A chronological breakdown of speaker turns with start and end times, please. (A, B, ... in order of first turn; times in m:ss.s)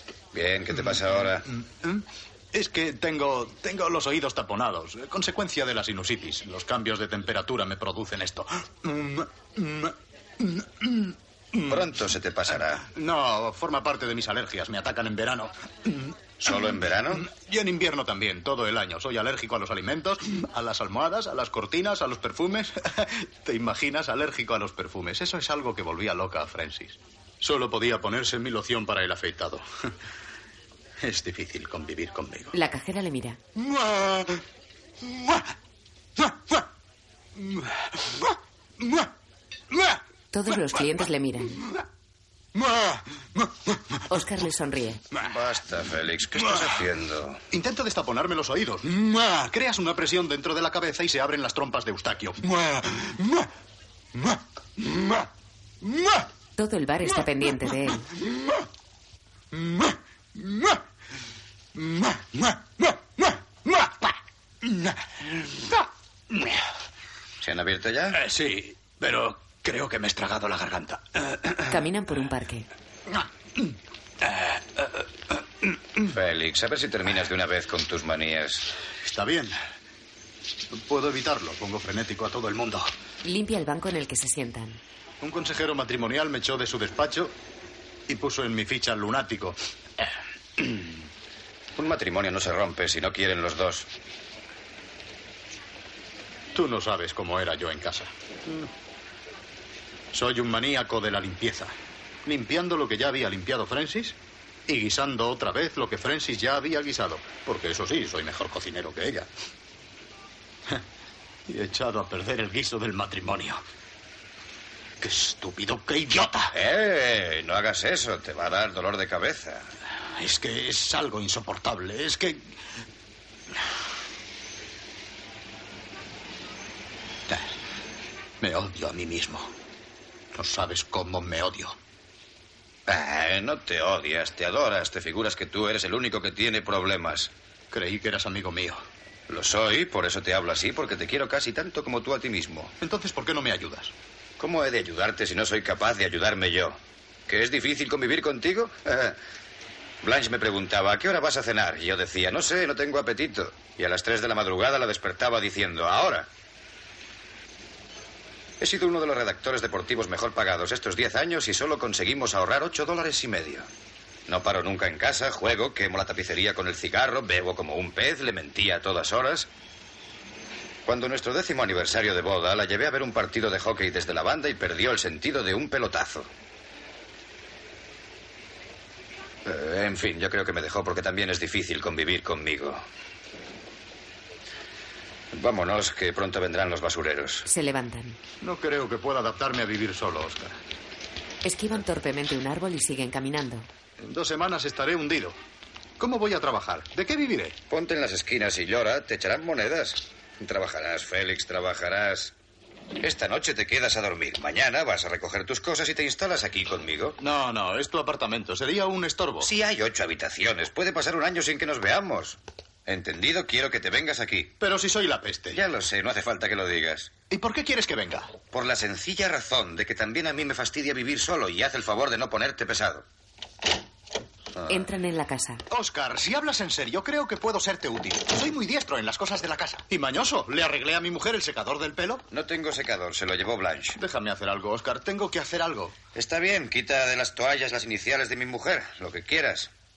0:00.3-0:01.5 A
0:01.5-0:11.9 B
0:11.7-0:12.9 A
0:12.8-0:29.6 B
0:16.4-0:17.2 A
0:31.0-0:32.5 B
0:32.5-0:33.4 C
0:33.6-0:34.4 B
0:35.0-0:35.4 B
0:36.2-0:36.6 B
0:37.4-0:39.1 B
0:39.7-0:40.0 B
0:40.3-0:41.6 C
0:42.5-0:43.8 B
0:44.1-0:45.0 C
0:45.2-0:47.4 A
0:47.5-0:53.5 B
0:54.2-0:55.3 B
0:55.8-0:56.2 B
0:56.6-0:58.1 C
0:59.5-1:00.8 B
1:01.8-1:06.6 B
1:07.4-1:08.2 A
1:08.1-1:11.8 B
1:11.7-1:12.7 C
1:13.1-1:15.0 B
1:16.1-1:18.7 A
1:19.0-1:19.6 B
1:20.7-1:22.9 B
1:23.2-1:24.8 C
1:25.2-1:27.3 B
1:28.1-1:29.6 B
1:31.8-1:33.9 A
1:36.5-1:38.7 B
1:40.1-1:41.7 B
1:42.2-1:44.2 B
1:44.7-1:49.3 B
1:51.5-1:53.6 B
1:55.0-1:56.5 B
1:56.5-1:59.7 A
2:00.2-2:02.5 B
2:08.4-2:09.5 B
2:10.3-2:11.8 B
2:12.9-2:17.3 A
2:17.7-2:18.8 B
2:19.3-2:22.7 A
2:22.8-2:23.9 B
2:24.4-2:29.2 A
2:30.0-2:36.3 A
2:38.6-2:43.7 A
2:44.3-2:49.5 A
2:50.8-2:56.3 A
2:59.4-3:02.8 A
3:05.3-3:07.5 A
3:07.5-3:08.2 C
3:08.4-3:10.6 B
3:11.4-3:13.7 C
3:14.0-3:15.4 B
3:16.0-3:17.6 B
3:17.7-3:22.3 A
3:23.0-3:27.2 A
3:27.2-3:29.5 B
3:29.4-3:34.6 A
3:34.6-3:35.6 B
3:35.5-3:37.1 A
3:37.3-3:38.4 B
3:38.5-3:43.0 A
3:44.7-3:45.6 C
3:45.7-3:52.2 B
3:52.3-3:54.0 A
3:54.0-3:56.0 B
3:56.2-3:59.7 A